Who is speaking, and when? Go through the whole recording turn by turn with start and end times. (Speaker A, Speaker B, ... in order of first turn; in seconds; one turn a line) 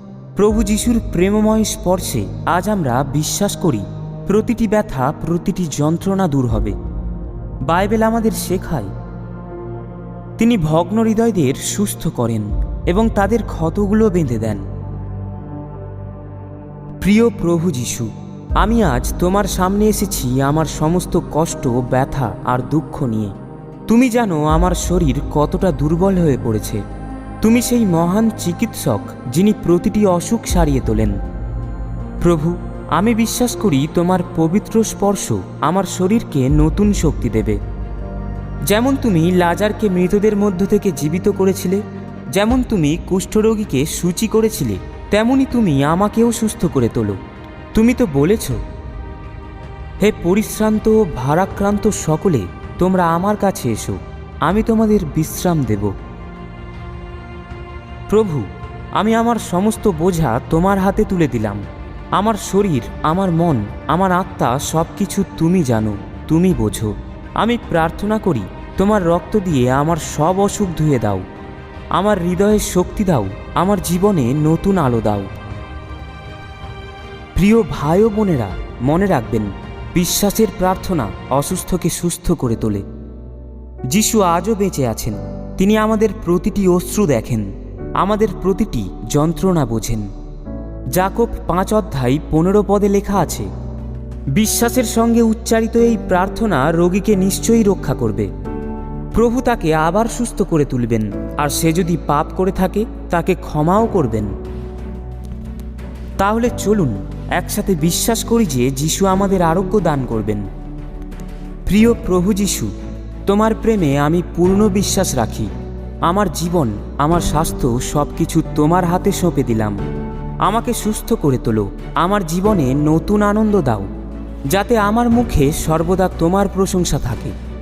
Speaker A: 0.3-6.8
Speaker A: 7.7-8.9
Speaker A: 10.4-14.7
Speaker A: 17.0-23.3
Speaker A: 23.9-26.8
Speaker A: 27.4-31.2
Speaker A: 32.2-37.6
Speaker A: 38.7-47.2
Speaker A: 47.7-48.6
Speaker A: 50.0-55.9
Speaker A: 58.1-61.6
Speaker A: 62.1-71.2
Speaker A: 71.9-75.3
Speaker A: 77.3-82.8
Speaker A: 83.9-90.1
Speaker A: 90.9-93.5
Speaker A: 94.3-98.3
Speaker A: 99.1-104.3
Speaker A: 106.2-110.5
Speaker A: 111.7-112.7
Speaker A: 113.2-115.5
Speaker A: 116.0-119.8
Speaker A: 120.4-123.9
Speaker A: 124.5-127.3